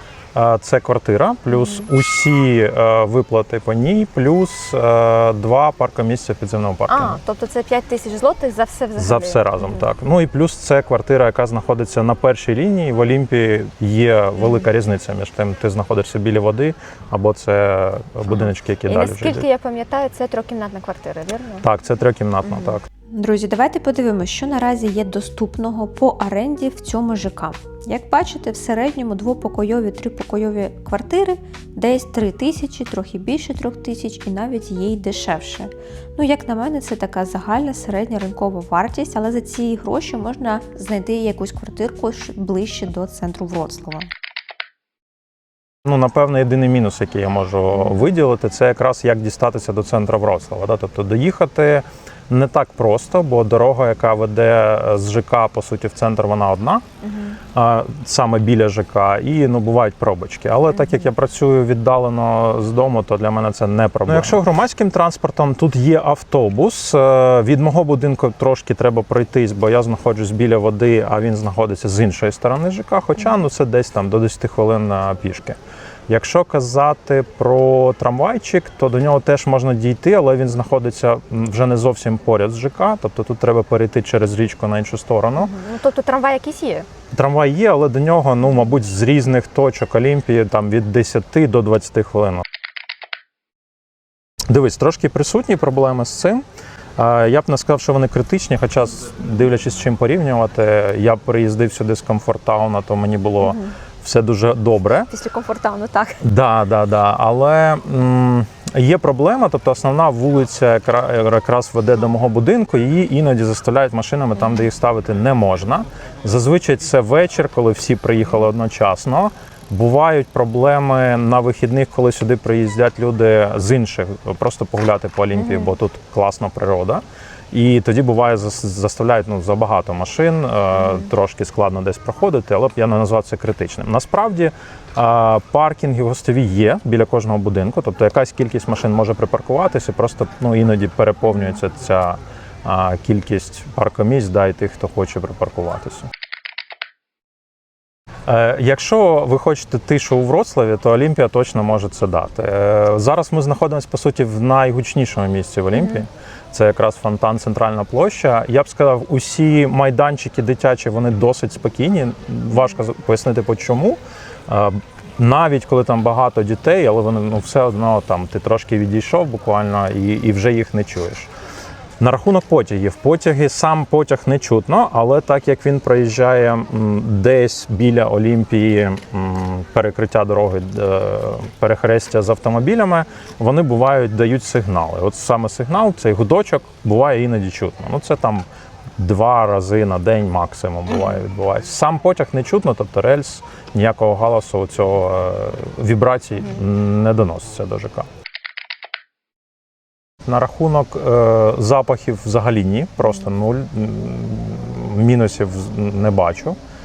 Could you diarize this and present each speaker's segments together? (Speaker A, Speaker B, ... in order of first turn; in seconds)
Speaker A: 0.3-7.2, 8.9-19.4, 21.6-22.9, 45.8-56.8, 57.5-75.6, 76.1-85.5, 87.1-92.4, 94.5-96.4, 97.0-105.1, 106.2-146.1, 148.2-171.3, 172.0-188.4, 189.0-198.1, 200.2-206.6
Speaker B: 1.5-1.9, 6.9-9.8, 14.4-14.7, 18.3-21.7, 22.4-22.8, 40.2-40.8, 57.0-57.4, 85.3-86.8, 103.4-103.7, 105.1-106.2, 125.3-125.8, 130.8-131.1, 155.7-156.0
Speaker C: 23.1-44.1